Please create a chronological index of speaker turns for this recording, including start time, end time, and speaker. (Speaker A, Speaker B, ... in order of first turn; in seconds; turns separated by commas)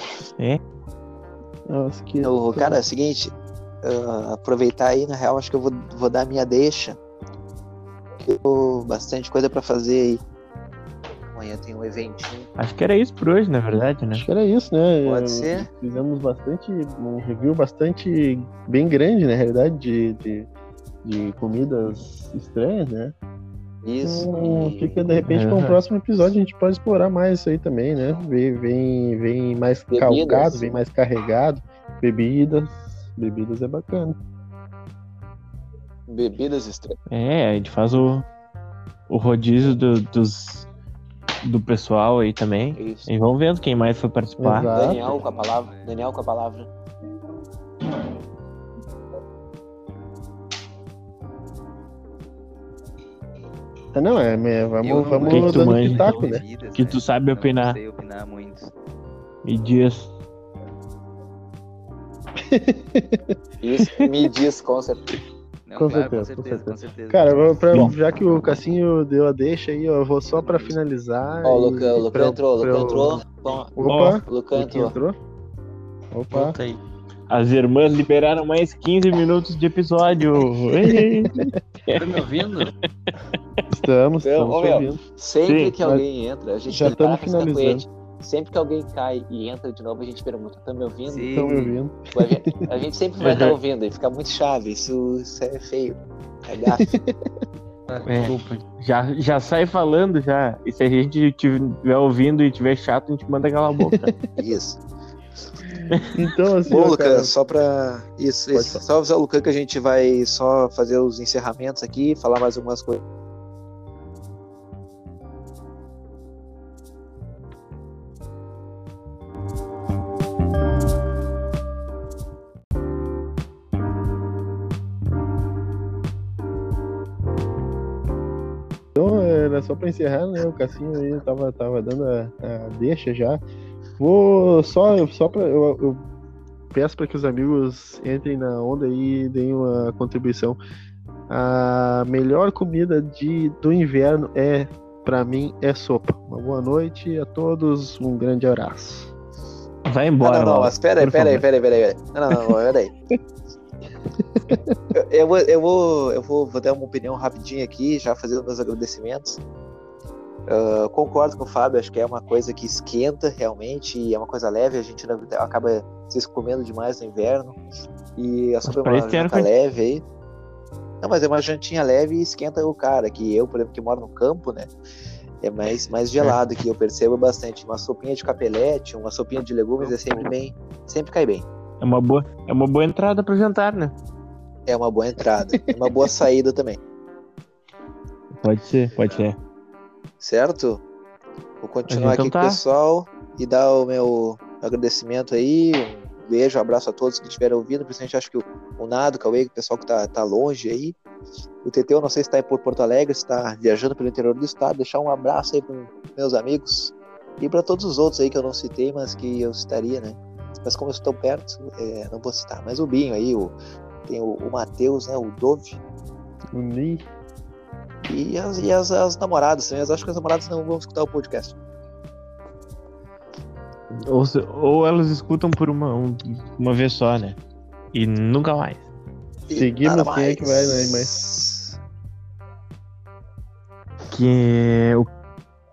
Speaker A: 1.7-2.8, Speaker B: 2.2-7.0, Speaker B: 8.2-10.2, Speaker B: 11.3-12.5, Speaker C: 12.6-14.2, Speaker A: 14.1-20.5, Speaker B: 15.0-15.7, Speaker A: 21.0-23.1, Speaker B: 23.8-25.0, Speaker A: 24.0-34.1, Speaker C: 25.3-25.8, Speaker B: 29.9-30.6, Speaker B: 36.1-37.0, Speaker C: 37.1-38.2, Speaker C: 39.1-40.7, Speaker C: 41.4-44.7, Speaker B: 42.7-43.1, Speaker A: 44.4-45.0, Speaker B: 44.6-46.7, Speaker D: 44.8-46.0, Speaker A: 53.9-56.4, Speaker D: 54.8-58.7, Speaker C: 55.3-57.8, Speaker C: 59.4-60.1, Speaker A: 62.4-63.4, Speaker B: 63.6-65.2, Speaker D: 65.7-67.9, Speaker A: 65.8-75.2, Speaker D: 70.3-70.8, Speaker B: 71.4-73.7, Speaker C: 73.9-74.2, Speaker B: 74.3-75.0, Speaker A: 76.1-76.5, Speaker E: 76.3-76.8, Speaker C: 77.3-82.3, Speaker A: 80.8-81.5, Speaker E: 81.9-82.7, Speaker A: 83.7-85.0, Speaker B: 84.2-91.4, Speaker C: 85.4-85.8, Speaker A: 86.7-87.9, Speaker D: 91.1-91.8, Speaker A: 91.3-92.7, Speaker B: 92.1-97.0, Speaker C: 93.2-93.6, Speaker A: 96.7-97.3, Speaker E: 97.9-98.6, Speaker C: 98.0-104.1, Speaker B: 104.4-104.8, Speaker A: 105.8-107.3, Speaker B: 106.7-113.0, Speaker A: 108.5-108.8, Speaker A: 128.9-133.4, Speaker A: 134.0-136.0, Speaker A: 136.7-140.6, Speaker A: 141.3-149.1, Speaker C: 149.9-151.4, Speaker B: 150.2-152.9, Speaker A: 154.4-154.8, Speaker B: 154.9-159.4, Speaker B: 160.5-167.6, Speaker B: 168.2-170.1, Speaker C: 168.6-169.5, Speaker B: 171.0-174.7, Speaker B: 175.4-181.4, Speaker A: 179.8-180.3, Speaker C: 181.8-183.9, Speaker B: 184.7-186.8, Speaker A: 185.6-186.1, Speaker C: 188.4-189.4, Speaker D: 189.0-189.3, Speaker B: 190.2-190.8, Speaker B: 191.6-200.9, Speaker C: 191.9-192.6, Speaker B: 201.6-213.6, Speaker B: 214.1-215.8, Speaker A: 216.5-217.1, Speaker B: 218.0-221.6, Speaker C: 223.9-227.4, Speaker C: 227.9-228.8, Speaker B: 229.5-231.8, Speaker A: 229.5-231.2, Speaker C: 234.1-235.1